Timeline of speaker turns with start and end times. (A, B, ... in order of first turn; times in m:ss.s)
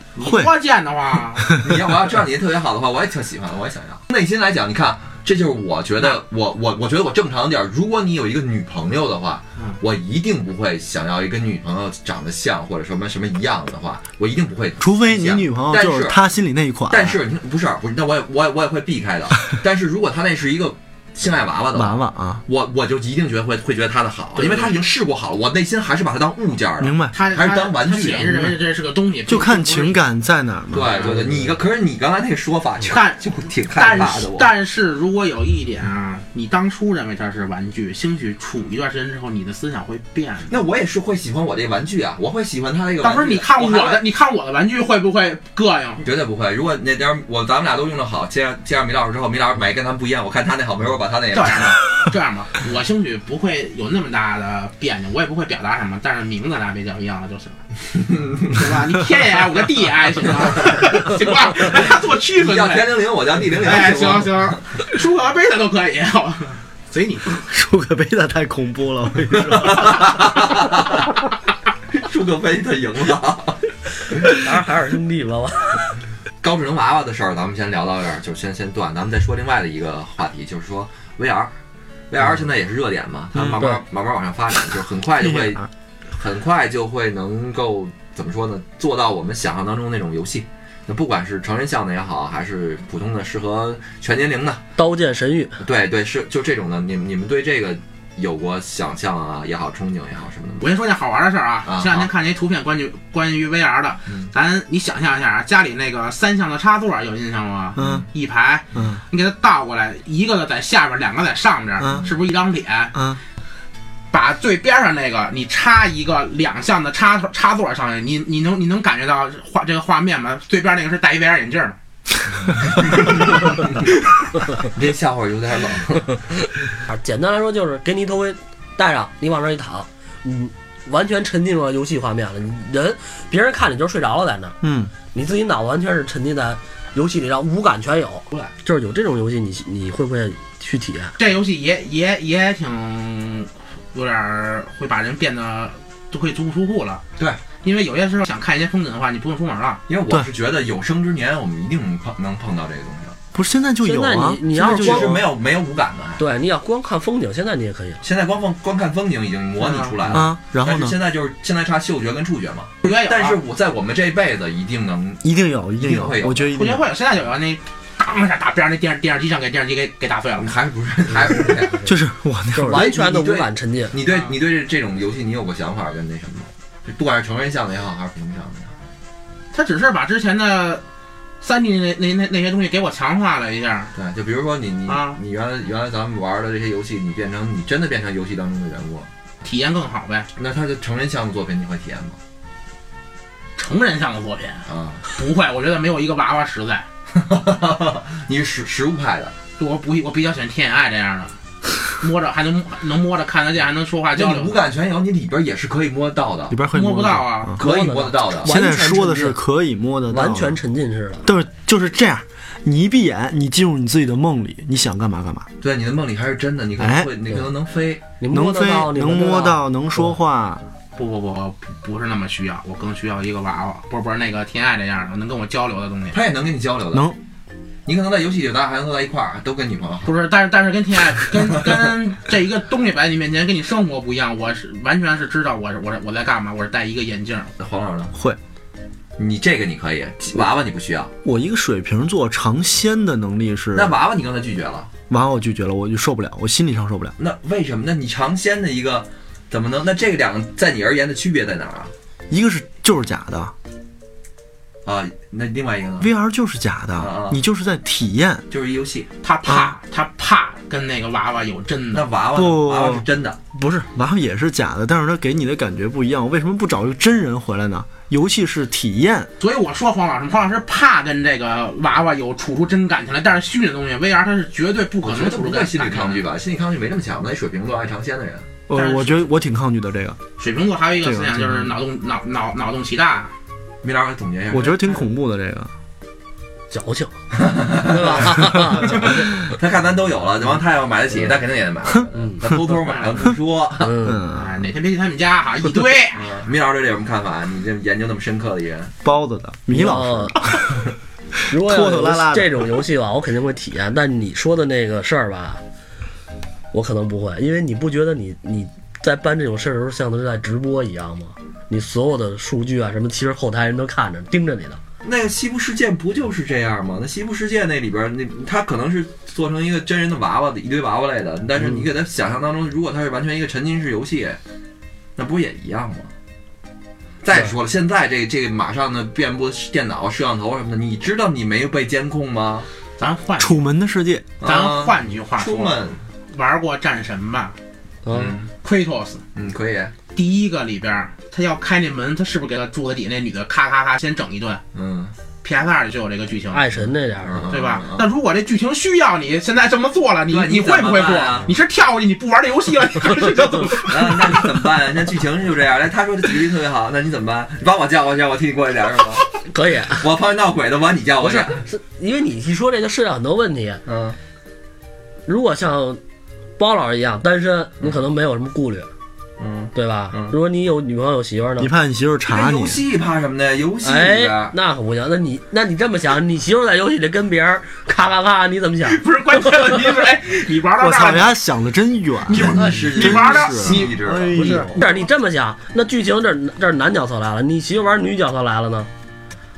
0:00.2-0:01.6 A
0:00.2-0:00.5 B
0:01.4-0:01.8 B
0:01.6-0:16.2 C
0:14.8-0:17.2 B
0:16.9-0:28.4 C
0:21.7-0:22.4 B
0:24.4-0:24.8 A
0:26.8-0:27.2 B
0:27.1-0:30.0 A
0:29.3-0:31.3 B
0:30.7-0:34.5 C
0:30.8-0:31.5 A
0:32.9-0:40.6 A
0:40.5-0:44.0 C
0:43.0-0:46.0 A
0:46.0-0:51.8 C
0:51.3-0:57.6 A
0:58.1-0:58.6 C
0:58.5-1:07.4 A
1:01.6-1:04.6 C
1:07.4-1:10.3 B
1:09.3-1:11.2 C
1:11.9-1:14.4 C
1:14.2-1:15.9 D
1:16.4-1:21.5 C
1:22.1-1:25.6 C
1:23.4-1:23.6 B
1:25.2-1:25.6 B
1:26.2-1:34.6 C
1:34.8-1:35.6 D
1:35.6-1:40.7 C
1:40.6-1:53.0 A
1:41.6-1:42.1 C
1:47.8-1:48.1 B
1:47.8-1:48.1 C
1:48.8-1:49.0 B
1:51.8-1:52.1 B
1:52.9-1:53.2 B
1:54.1-2:01.8 A
2:02.4-2:04.0 C
2:04.6-2:06.1 C
2:06.8-2:14.6 D
2:14.6-2:14.9 B
2:15.1-2:21.2 D
2:21.2-2:27.0 A
2:27.6-2:29.8 A
2:29.9-2:33.2 C
2:33.3-2:35.2 B
2:33.8-2:35.2 D
2:34.6-2:36.2 C
2:36.2-2:38.0 D
2:38.0-2:45.2 C
2:39.6-2:40.2 A
2:40.1-2:41.0 B
2:42.8-2:43.4 A
2:45.2-2:46.8 B
2:45.8-2:46.6 C
2:46.6-2:50.5 A
2:50.4-2:51.9 C
2:51.8-2:52.9 B
2:52.6-2:54.0 D
2:52.7-2:58.7 C
2:54.1-2:54.4 A
2:59.5-3:00.8 A
3:01.4-3:03.9 A
3:04.0-3:09.1 C
3:04.9-3:05.2 A
3:09.4-3:10.3 A
3:10.4-3:12.2 C
3:13.6-3:16.9 A
3:14.7-3:15.0 C
3:17.1-3:19.3 C
3:19.6-3:21.4 A
3:21.9-3:24.6 A
3:24.2-3:26.6 C
3:26.5-3:27.6 B
3:26.7-3:27.6 A
3:27.6-3:28.5 C
3:27.6-3:29.4 D
3:28.4-3:30.6 B
3:30.1-3:31.3 D
3:31.2-3:35.5 B
3:35.6-3:38.0 C
3:36.8-3:37.1 B
3:38.2-3:39.6 D
3:38.3-3:40.7 B
3:41.0-3:46.2 A
3:46.1-3:47.1 C
3:46.9-3:47.2 B
3:47.9-3:50.1 C
3:50.0-3:57.5 A
3:57.6-3:58.1 C
3:58.1-3:58.4 B
3:59.2-4:01.1 C
4:01.2-4:04.0 B
4:03.7-4:04.9 C
4:05.1-4:07.2 B
4:07.2-4:11.9 C
4:12.3-4:13.5 B
4:14.8-4:16.1 C
4:16.0-4:18.4 B
4:17.0-4:17.4 C
4:18.5-4:19.1 C
4:19.2-4:22.1 A
4:19.4-4:19.8 B
4:21.9-4:23.4 C
4:22.3-4:29.3 B
4:29.4-4:36.2 A
4:35.0-4:38.5 C
4:38.7-4:40.2 B
4:38.7-4:39.3 A
4:40.4-4:43.3 A
4:41.0-4:41.8 B
4:43.8-4:44.8 C
4:44.5-4:45.7 B
4:46.7-4:47.1 D
4:47.3-4:54.0 C
4:47.6-4:49.2 D
4:53.8-4:54.2 D
4:54.0-4:54.6 B
4:54.3-4:56.4 A
4:56.1-4:58.9 C
4:59.0-5:00.8 B
4:59.7-5:00.5 D
5:01.5-5:02.7 B
5:01.5-5:05.6 D
5:06.7-5:14.8 D
5:15.0-5:24.4 C
5:25.2-5:26.1 C
5:27.2-5:32.7 C
5:33.0-5:33.6 A
5:33.4-5:34.3 B
5:34.4-5:36.0 C
5:34.4-5:37.6 A
5:38.0-5:38.4 D
5:38.1-5:38.5 C
5:38.6-5:39.2 A
5:39.4-5:39.9 C
5:40.1-5:44.6 A
5:44.7-5:45.1 C
5:45.4-5:46.7 A
5:46.5-5:47.5 D
5:47.2-5:48.1 C
5:47.5-5:54.7 A
5:50.3-5:51.5 C
5:53.7-5:59.3 C
5:59.5-6:00.0 D
6:00.0-6:01.6 C
6:01.2-6:03.8 D
6:03.9-6:04.2 C
6:05.3-6:06.0 D
6:06.6-6:08.9 D
6:09.4-6:10.4 C
6:09.7-6:11.7 D
6:11.6-6:12.8 B
6:12.3-6:14.5 C
6:13.8-6:19.0 D
6:18.8-6:21.4 A
6:20.8-6:24.7 B
6:22.3-6:24.0 A
6:22.3-6:25.0 C
6:24.3-6:28.9 D